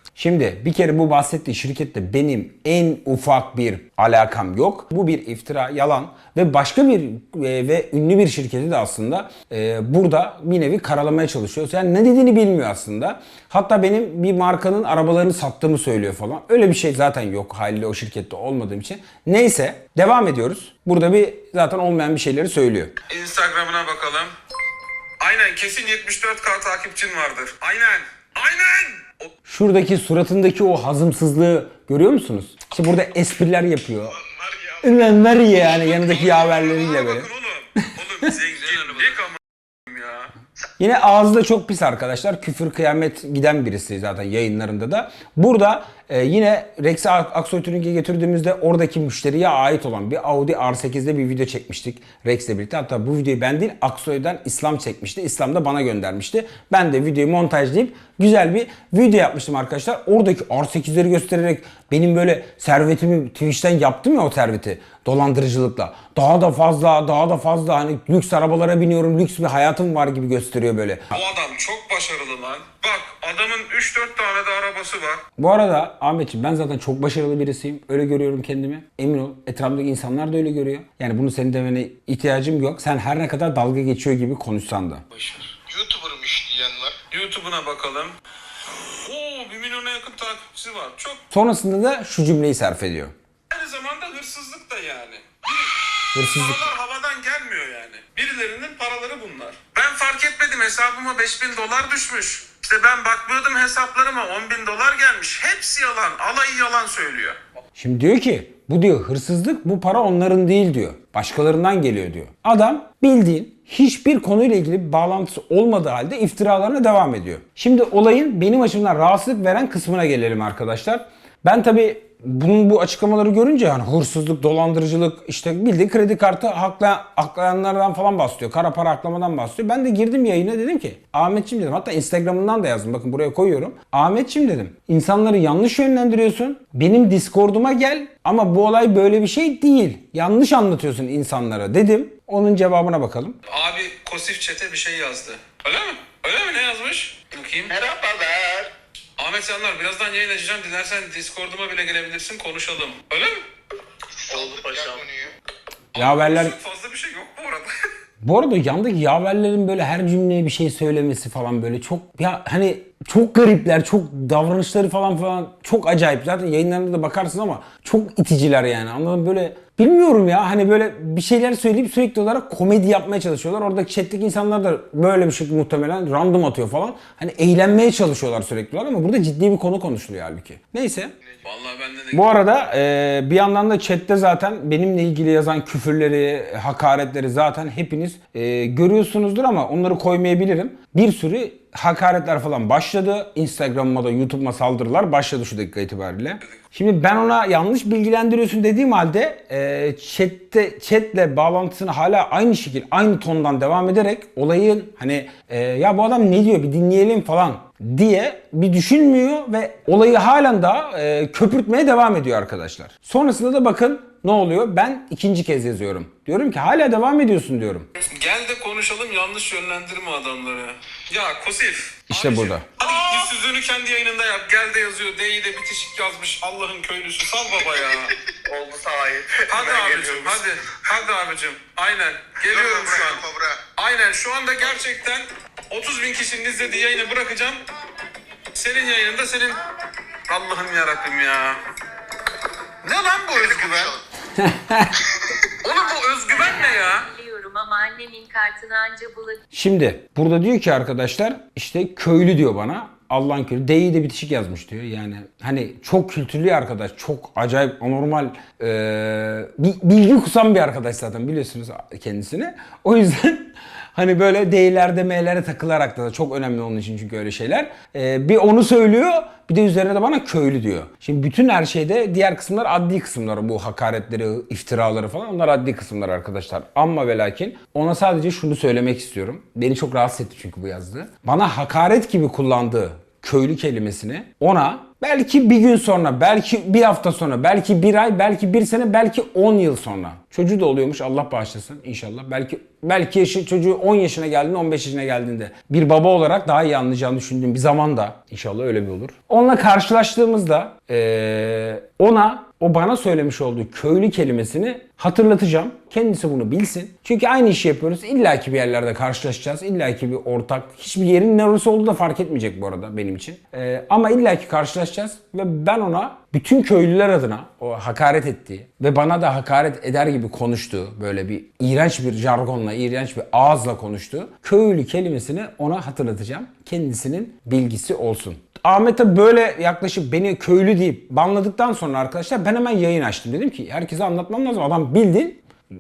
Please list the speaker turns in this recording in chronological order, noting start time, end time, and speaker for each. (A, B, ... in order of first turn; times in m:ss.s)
0:00.2-0:22.9 A
0:23.1-0:24.3 B
0:25.2-0:29.3 B
0:29.5-0:34.2 A
0:34.3-0:34.7 C
0:34.8-0:37.3 A
0:35.6-0:40.3 B
0:40.8-1:11.1 A
1:11.1-1:15.2 B
1:15.4-1:25.0 A
1:25.5-1:27.0 C
1:27.1-1:28.2 B
1:28.9-1:31.2 B
1:31.3-1:33.1 A
1:33.5-1:47.4 B
1:36.1-1:36.6 A
1:47.8-2:23.4 A
2:23.5-2:27.8 B
2:27.7-2:28.7 C
2:29.2-2:33.4 B
2:34.1-2:35.3 C
2:34.3-2:35.0 B
2:36.0-2:36.6 A
2:36.0-2:37.7 B
2:38.2-3:01.1 A
3:01.4-3:02.3 B
3:02.1-3:37.9 A
3:38.0-3:48.1 B
3:42.1-3:42.7 A
3:48.4-3:50.5 C
3:49.5-3:57.6 B
3:52.4-3:53.6 C
3:58.5-3:59.6 B
4:00.3-4:01.6 B
4:02.8-4:04.0 B
4:03.4-4:04.0 C
4:04.4-4:05.0 A
4:05.6-4:07.1 B
4:05.9-4:09.4 D
4:09.5-5:35.4 A